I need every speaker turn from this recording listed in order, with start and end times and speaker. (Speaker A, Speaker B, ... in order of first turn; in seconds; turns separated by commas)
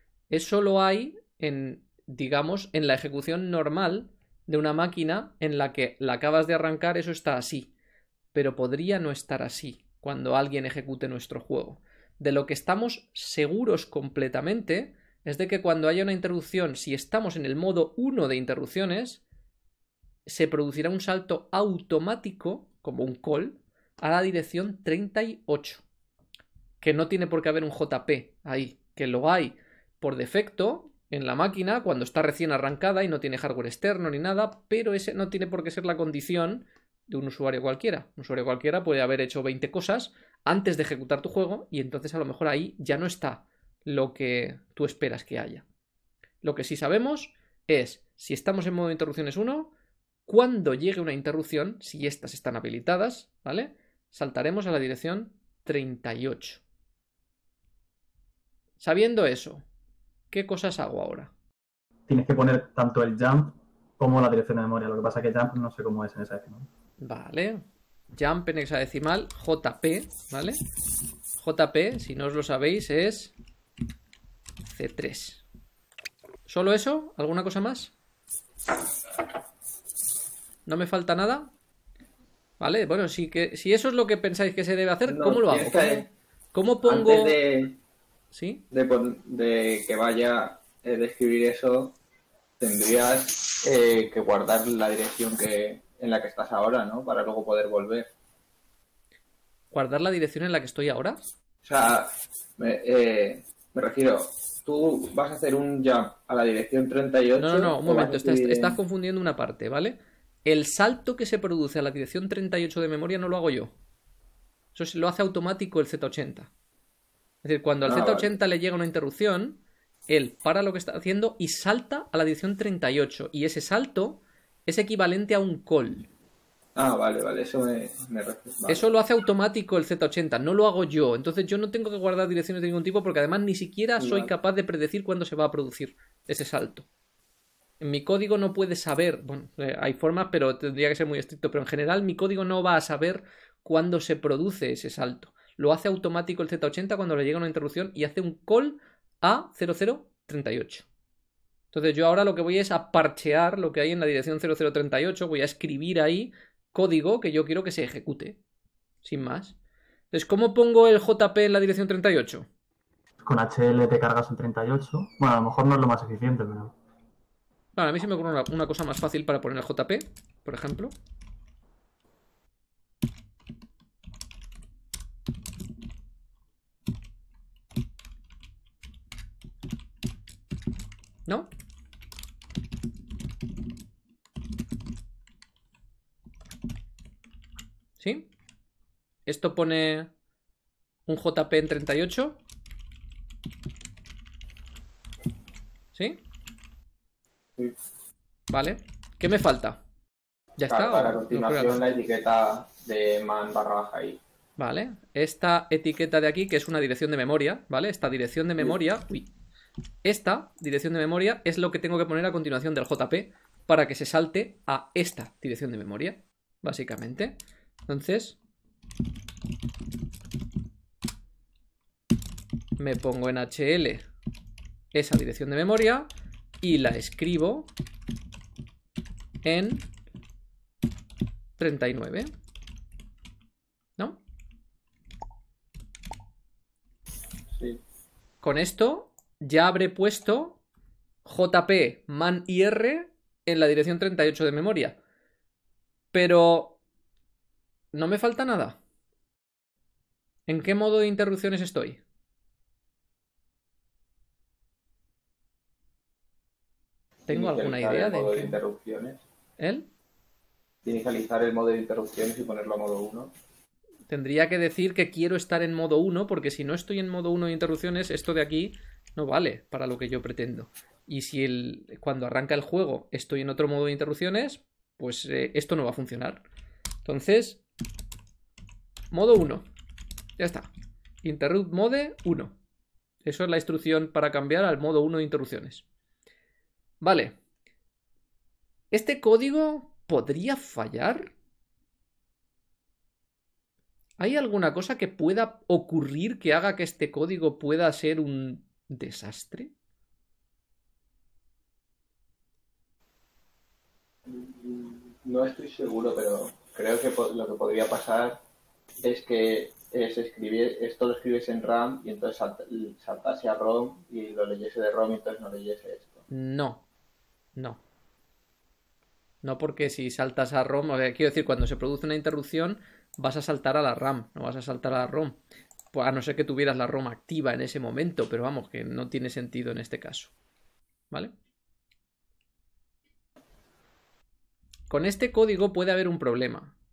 Speaker A: 0.3-7.7, Speaker A: 8.3-19.2, Speaker A: 20.3-25.8, Speaker A: 26.8-45.7, Speaker A: 46.4-49.7, Speaker A: 50.3-56.6, Speaker A: 58.8-59.6, Speaker A: 60.3-61.3, Speaker B: 62.1-66.7, Speaker A: 67.0-70.6, Speaker A: 71.4-73.3, Speaker A: 74.7-75.4, Speaker A: 76.5-77.9, Speaker A: 80.7-81.5, Speaker A: 82.6-87.4, Speaker C: 85.1-86.0, Speaker C: 86.8-87.8, Speaker A: 88.3-88.6, Speaker C: 88.7-92.0, Speaker C: 92.6-98.1, Speaker A: 99.7-101.2, Speaker C: 101.6-108.8, Speaker A: 107.4-113.8, Speaker A: 114.7-116.5, Speaker A: 117.4-126.1, Speaker C: 117.8-118.3, Speaker C: 126.8-128.9, Speaker A: 128.7-136.9, Speaker C: 134.0-134.3, Speaker A: 137.8-150.9, Speaker A: 151.7-158.4, Speaker A: 159.0-159.6, Speaker A: 160.1-162.5, Speaker B: 163.2-166.7, Speaker A: 167.8-170.9, Speaker A: 188.0-188.3, Speaker A: 189.3-190.1, Speaker A: 191.1-192.4, Speaker A: 195.9-196.2, Speaker A: 198.5-199.8, Speaker A: 200.6-201.8, Speaker C: 200.7-204.2, Speaker A: 204.6-209.3, Speaker A: 210.0-217.4, Speaker A: 217.9-218.4, Speaker A: 222.8-224.1, Speaker A: 224.9-226.1, Speaker A: 226.6-227.7, Speaker A: 229.4-229.9, Speaker A: 231.6-232.3, Speaker C: 237.5-237.8, Speaker A: 238.4-240.6, Speaker A: 241.2-245.0, Speaker A: 246.1-246.8, Speaker A: 247.9-248.8, Speaker A: 250.5-252.0, Speaker C: 257.3-259.2, Speaker A: 257.3-258.6, Speaker A: 259.6-259.9, Speaker C: 260.8-263.3, Speaker A: 264.1-276.4, Speaker A: 277.1-277.6, Speaker A: 279.1-279.6, Speaker A: 280.4-280.7, Speaker A: 281.2-282.6, Speaker A: 283.2-285.9, Speaker A: 287.0-287.4, Speaker A: 288.9-291.4, Speaker A: 294.2-299.7, Speaker C: 304.3-308.4, Speaker C: 309.0-316.2, Speaker A: 316.3-316.8, Speaker A: 317.6-317.8, Speaker A: 319.4-325.4, Speaker A: 325.9-330.3, Speaker A: 334.9-336.8